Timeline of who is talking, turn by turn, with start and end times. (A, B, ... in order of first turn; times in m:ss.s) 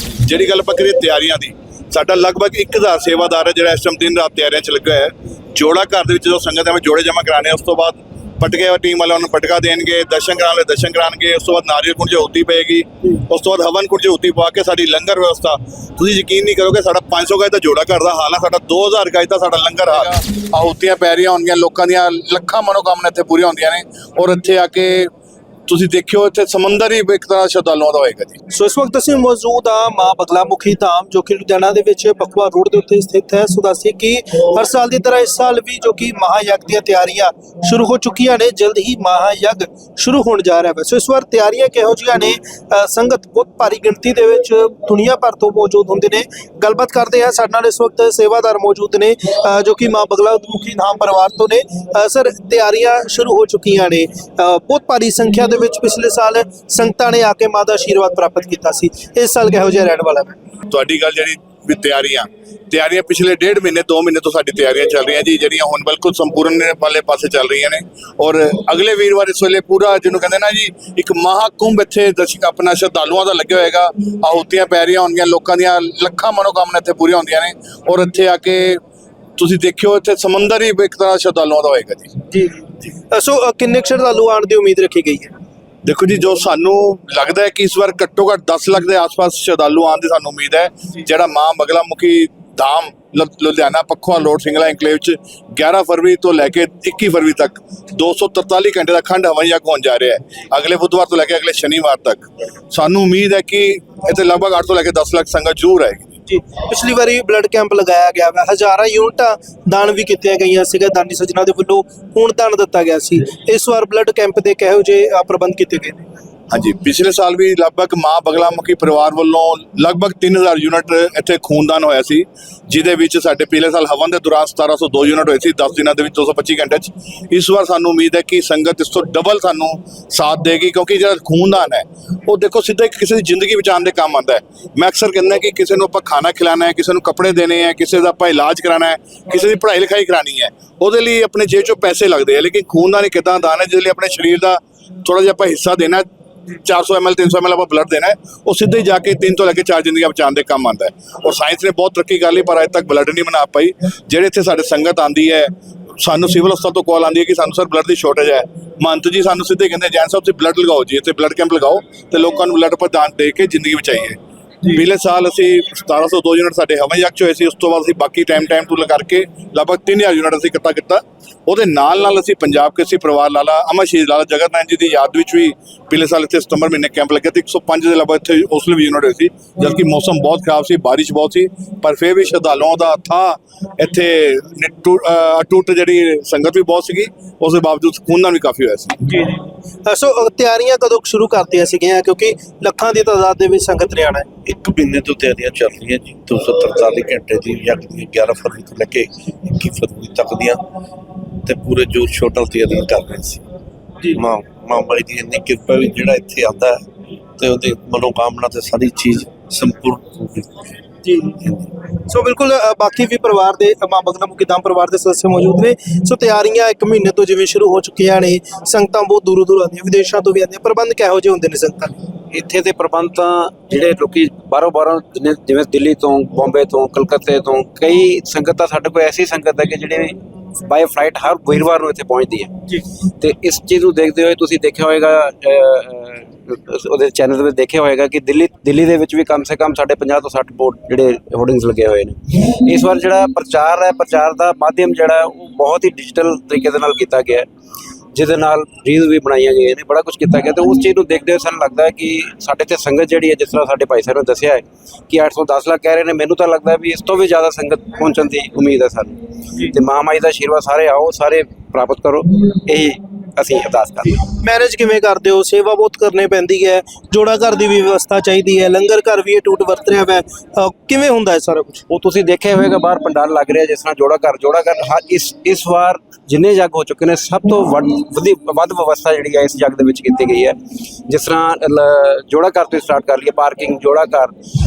0:00.2-0:25.1 A
0:25.7-0:28.4 A
0:28.5-1:00.4 B
1:00.7-1:18.8 A
1:19.4-1:22.1 A
1:22.3-1:25.3 B
1:25.8-1:46.1 A
1:46.3-1:56.0 B
1:56.5-2:26.1 A
2:26.6-2:44.2 A
2:44.7-3:09.0 A
3:09.0-3:14.3 B
3:14.5-3:20.6 C
3:21.4-3:23.4 C
3:24.1-3:26.9 C
3:27.4-3:30.6 C
3:31.0-3:31.4 B
3:31.4-3:31.7 C
3:32.1-3:41.9 B
3:42.3-3:52.6 D
3:53.2-4:07.5 D
4:08.1-4:24.2 D
4:24.4-4:31.8 B
4:31.9-4:44.3 D